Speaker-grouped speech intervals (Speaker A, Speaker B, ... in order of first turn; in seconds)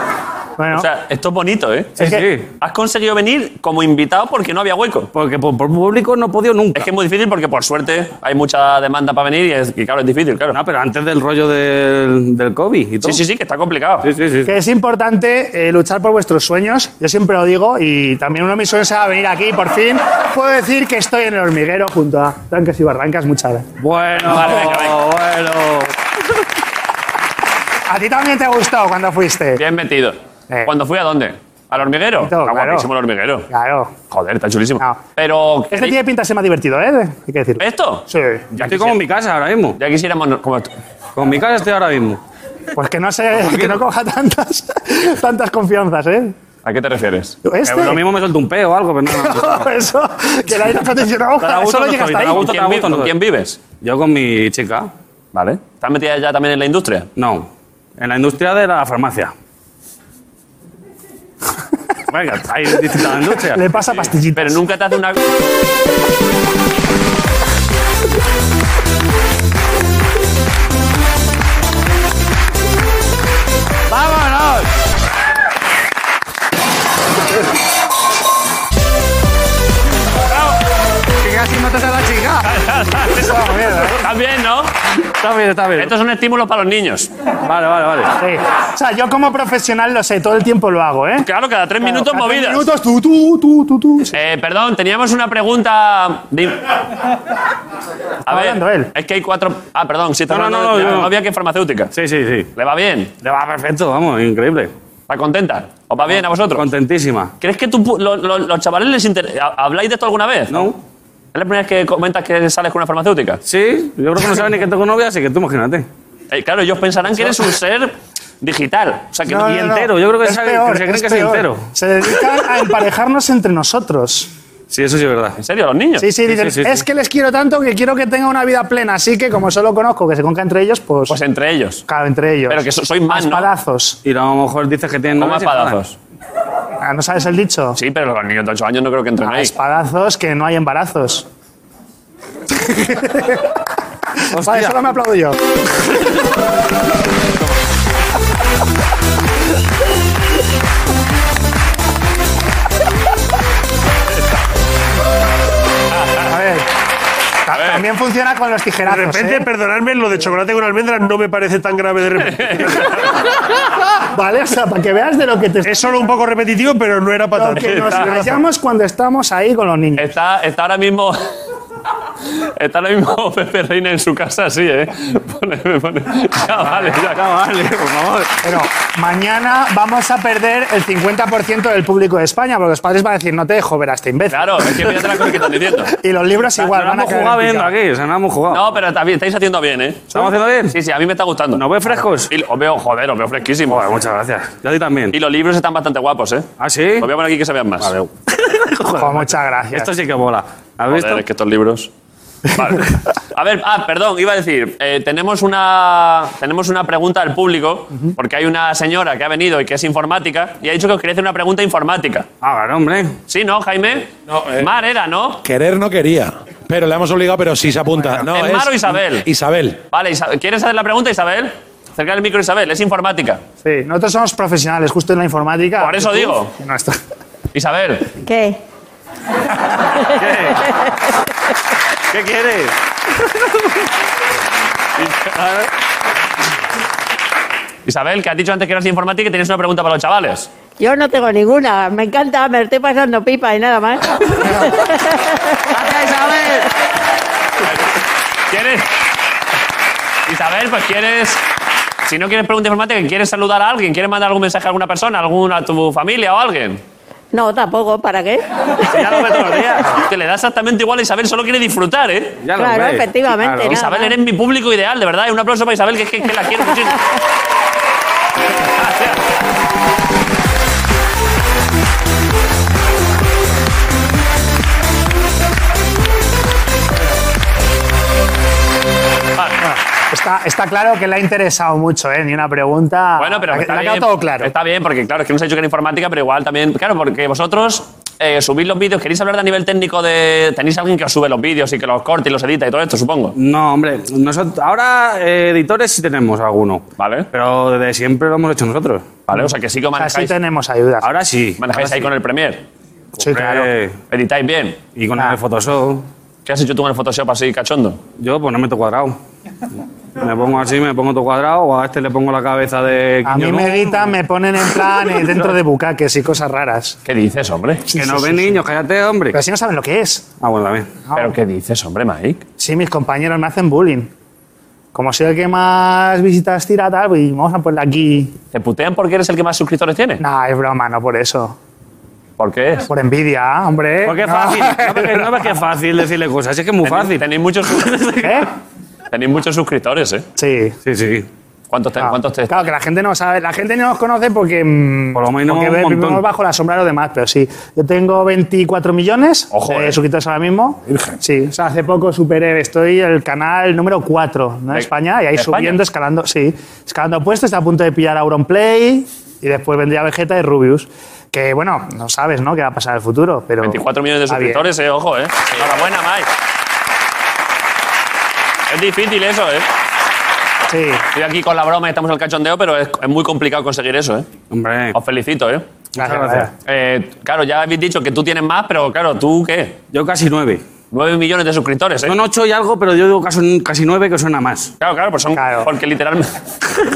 Speaker A: 0.6-0.9, 2.0-2.3, 14.5-23.7, 27.9-29.6, 32.2-32.9, 33.5-34.0, 35.7-38.6, 42.7-46.4, 47.4-48.0, 49.1-52.6, 63.3-64.6, 83.1-84.0, 88.2-91.3, 91.8-94.1, 98.3-98.9, 119.3-124.3, 126.0-131.2, 131.9-134.0, 136.8-137.8, 139.2-141.3, 142.5-143.4, 144.3-145.4, 156.3-156.7, 157.5-159.5, 164.1-166.1, 167.3-170.1, 178.4-185.1, 185.9-187.7, 199.0-199.9, 223.6-227.0, 279.6-284.5, 299.4-301.1, 303.2-303.7, 313.2-317.0, 317.9-318.6, 319.3-320.3, 321.1-321.3, 322.6-324.1, 324.9-328.4, 330.2-331.6, 332.9-335.6, 338.2-338.5, 340.4-340.8, 342.0-364.6, 370.7-371.0, 376.0-376.5, 385.3-385.7
Speaker B: 0.7-5.1, 6.8-10.6, 13.0-14.1, 24.2-25.0, 29.6-33.5, 34.1-36.0, 37.6-39.0, 39.8-40.7, 46.6-47.4, 52.3-53.6, 55.3-57.1, 63.9-65.2, 82.4-84.8, 85.8-87.1, 91.2-92.7, 94.1-96.7, 98.3-101.9, 102.6-103.1, 105.1-106.7, 107.4-110.7, 111.3-113.4, 116.3-119.6, 125.4-126.1, 131.1-131.8, 132.5-133.5, 135.2-136.0, 137.8-139.5, 155.9-156.3, 157.5-157.8, 162.3-163.1, 167.6-168.3, 170.0-171.3, 172.6-177.2, 184.3-186.0, 188.5-191.7, 192.3-193.8, 195.1-196.5, 197.0-197.9, 200.9-201.9, 202.5-212.3, 213.3-215.4, 218.3-219.2, 219.9-223.4, 225.8-226.5, 227.5-228.1, 235.1-235.3, 237.9-240.5, 248.5-248.9, 250.3-251.4, 252.1-256.8, 258.9-262.4, 263.7-267.0, 268.6-269.2, 283.2-293.4, 297.0-297.3, 299.3-300.4, 301.6-302.6, 304.1-304.8, 306.5-308.0, 317.1-317.9, 321.2-322.4, 328.5-330.2, 332.4-332.9, 336.8-338.0, 339.1-340.2, 341.7-342.5, 349.5-350.0, 354.7-355.8, 363.6-366.3, 368.7-369.7, 371.1-374.3, 374.9-375.6, 376.6-379.8, 380.9-382.1, 384.8-386.4
Speaker C: 2.0-2.5, 5.1-6.9, 10.5-13.2, 14.0-14.5, 23.8-25.9, 38.6-39.8, 41.2-42.2, 43.4-43.8, 47.6-49.6, 51.4-53.1, 53.7-54.9, 57.2-57.5, 58.0-59.3, 62.1-63.6, 73.9-74.7, 81.2-82.5, 85.2-85.9, 87.4-88.1, 100.3-101.2, 101.9-102.5, 103.2-104.7, 106.5-107.3, 110.5-110.8, 113.5-115.9, 119.4-121.7, 124.7-125.4, 126.3-126.8, 134.1-135.8, 144.3-144.8, 176.7-178.3, 186.6-188.7, 190.1-190.8, 191.5-192.3, 193.7-195.2, 196.6-197.1, 197.8-201.2, 212.4-213.2, 230.2-230.6, 232.1-233.5, 245.7-246.7, 258.9-260.0, 262.4-263.8, 293.4-299.1, 301.0-301.7, 303.2-303.9, 304.9-306.1, 308.2-309.2, 310.2-314.1, 317.9-319.4, 320.4-320.9, 334.0-338.4, 340.9-341.3, 345.1-346.2, 374.5-375.0, 376.0-376.5, 379.9-380.6, 382.1-384.7
Speaker D: 158.9-162.9, 165.6-168.3
Speaker E: 214.3-214.7, 215.4-219.8
Speaker F: 228.2-228.6, 240.8-245.4, 257.3-258.4, 262.6-264.1